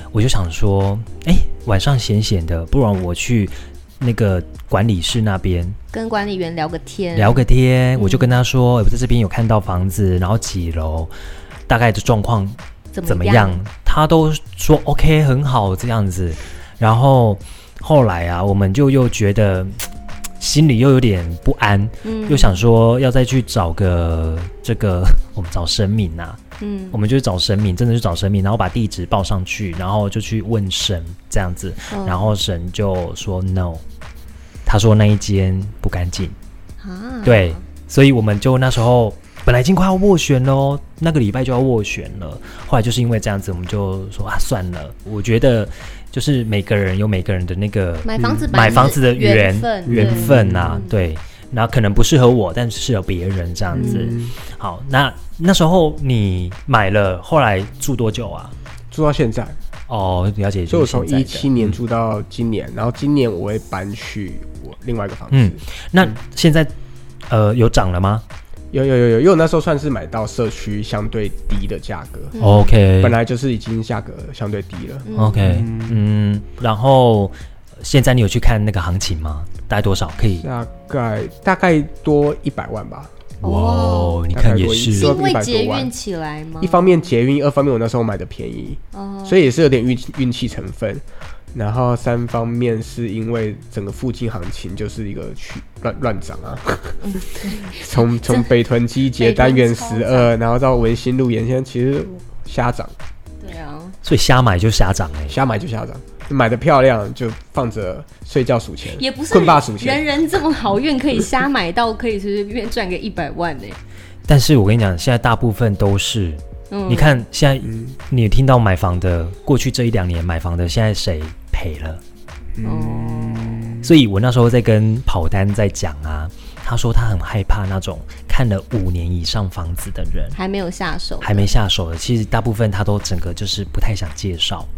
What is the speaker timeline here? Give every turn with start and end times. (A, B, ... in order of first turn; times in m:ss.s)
0:00.1-0:05.8 A
0:05.9-0:08.4 B
0:07.1-0:11.1 A
0:11.7-0:26.4 A
0:12.9-0:13.6 B
0:22.0-0:22.6 B
0:26.6-0:27.0 B
0:26.9-0:33.8 A
0:31.9-0:32.4 B
0:34.6-0:36.3 A
0:36.8-0:37.6 B
0:37.2-0:58.5 A
0:48.0-0:51.0 B
0:48.2-0:48.9 C
0:49.8-0:50.8 C
0:53.7-0:54.4 C
0:53.7-0:54.2 B
0:58.9-0:59.6 C
0:59.9-1:01.8 A
1:00.7-1:06.1 C
1:05.3-1:06.7 A
1:07.3-1:08.2 A
1:08.7-1:12.3 C
1:12.3-1:12.7 B
1:12.4-1:13.2 A
1:13.0-1:16.0 C
1:15.0-1:15.5 B
1:15.1-1:20.5 A
1:20.4-1:23.1 C
1:23.4-1:24.2 B
1:23.4-1:25.2 A
1:24.3-1:25.9 C
1:24.9-1:27.1 B
1:26.6-1:37.0 C
1:28.9-1:29.5 B
1:37.0-1:38.5 B
1:37.6-1:42.9 C
1:39.1-1:40.3 B
1:43.4-1:44.0 B
1:44.0-1:45.4 A
1:45.3-1:50.2 C
1:48.9-1:53.8 B
1:54.3-2:02.0 A
1:56.7-1:57.2 B
1:57.6-1:58.0 C
2:02.6-2:03.9 C
2:02.6-2:03.7 B
2:03.8-2:10.4 A
2:10.3-2:11.5 B
2:11.2-2:14.7 A